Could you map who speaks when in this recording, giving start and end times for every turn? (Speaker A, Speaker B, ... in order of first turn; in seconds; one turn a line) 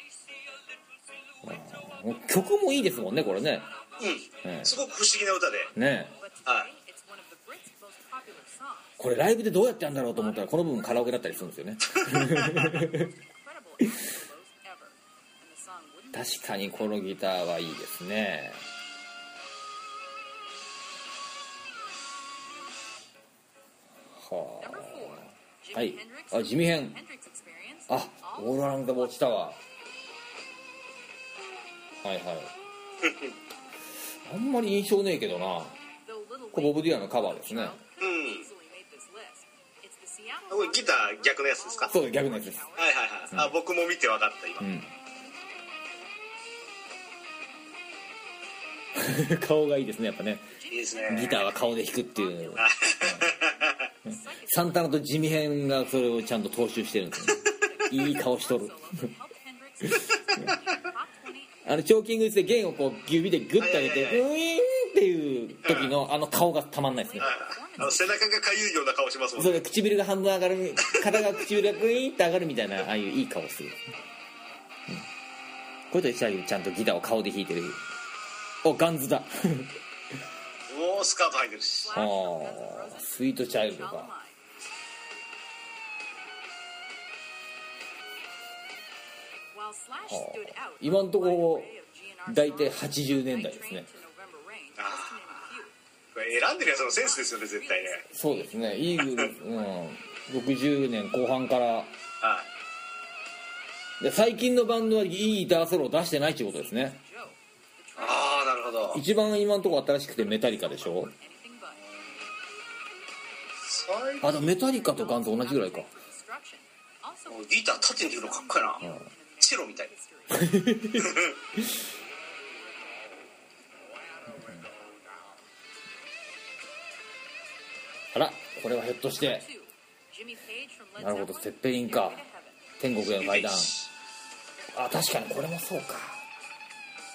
Speaker A: 1.4-3.7
Speaker B: 3.1-4.4
Speaker C: 4.0-5.7
Speaker A: 4.4-4.8
Speaker A: 5.8-6.1
Speaker B: 6.2-9.0
Speaker A: 9.0-13.1
Speaker B: 9.8-17.0
Speaker A: 16.1-18.6
Speaker A: 24.1-27.0
Speaker B: 24.6-29.6
Speaker A: 27.9-29.6
Speaker A: 32.0-32.5
Speaker C: 33.0-33.4
Speaker A: 34.2-35.8
Speaker B: 36.0-43.5
Speaker A: 36.5-37.8
Speaker C: 38.0-38.5
Speaker C: 40.5-42.0
Speaker A: 41.9-42.6
Speaker C: 42.8-44.7
Speaker A: 44.6-44.9
Speaker A: 49.0-50.5
Speaker B: 50.5-55.2
Speaker C: 50.7-51.4
Speaker A: 51.1-53.3
Speaker C: 52.6-53.9
Speaker A: 54.1-59.1
Speaker C: 57.2-57.6
Speaker B: 57.3-62.0
Speaker A: 59.8-60.6
Speaker C: 60.5-60.8
Speaker A: 61.6-67.3
Speaker C: 63.6-64.2
Speaker C: 65.6-65.9
Speaker B: 66.9-68.5
Speaker C: 67.2-69.6
Speaker A: 69.4-73.8
Speaker C: 70.8-71.2
Speaker A: 75.9-77.8
Speaker A: 78.6-79.7
Speaker C: 80.7-81.9
Speaker B: 81.8-84.4
Speaker A: 81.9-84.1
Speaker B: 89.5-95.8
Speaker A: 90.1-91.7
Speaker A: 92.3-93.9
Speaker C: 94.8-95.5
Speaker C: 96.1-98.0
Speaker B: 96.6-99.9
Speaker A: 98.1-101.9
Speaker C: 99.0-99.3
Speaker C: 102.2-102.5
Speaker A: 104.0-107.0
Speaker B: 106.5-109.0
Speaker C: 108.0-109.0
Speaker A: 108.9-111.1
Speaker B: 109.8-111.9
Speaker C: 113.7-114.5
Speaker A: 114.2-115.9
Speaker B: 114.3-120.9
Speaker C: 117.3-118.8
Speaker A: 118.8-119.1
Speaker C: 119.4-119.9
Speaker A: 120.3-121.8
Speaker C: 121.0-121.3
Speaker A: 128.1-129.4
Speaker B: 129.2-132.7
Speaker A: 131.0-132.2
Speaker A: 132.8-133.7
Speaker C: 133.0-133.9
Speaker A: 134.7-136.2